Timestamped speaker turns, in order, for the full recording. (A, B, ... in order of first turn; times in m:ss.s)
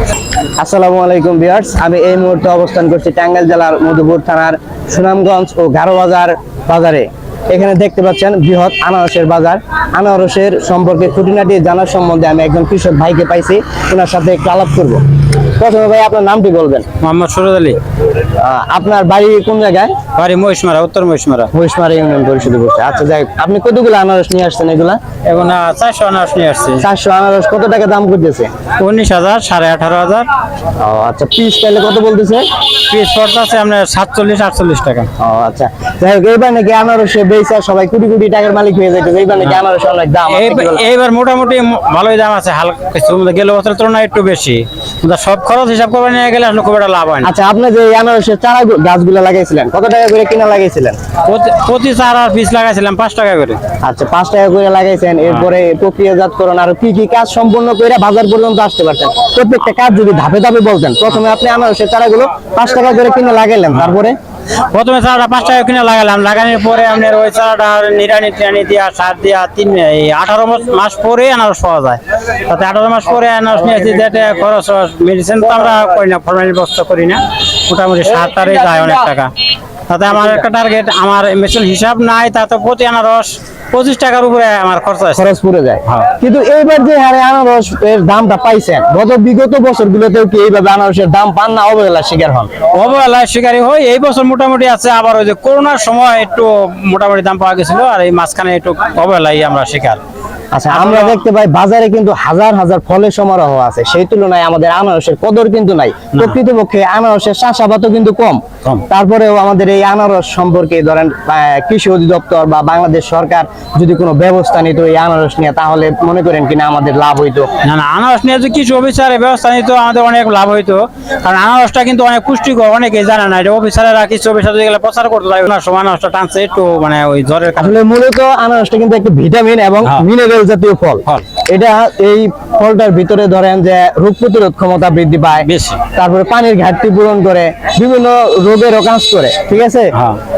0:00.6-0:15.0 A
0:15.6-0:16.9 A
0:17.0-0:17.8 B
0:18.4-0:19.9 A
0:20.1-0:21.5 B
0:21.5-0:25.0 A
0:25.3-0:26.8 B
0:26.8-0:28.5 A
0:28.8-0:30.2 B
0:30.8-0:32.4 A
0:32.9-0:35.1 B
0:35.2-0:40.8 A
0:40.3-0:47.3 B
0:47.2-0:51.0 A
0:51.2-0:53.6 B
0:53.8-1:04.2 A
1:04.7-1:19.3 B
1:19.9-1:25.2 B
1:25.1-1:32.5 A
1:32.7-1:40.0 B
1:40.5-1:57.5 A
1:40.7-1:41.2 B
1:57.6-2:07.8 B
2:07.6-2:19.9 A
2:15.4-2:15.8 B
2:19.9-2:20.2 B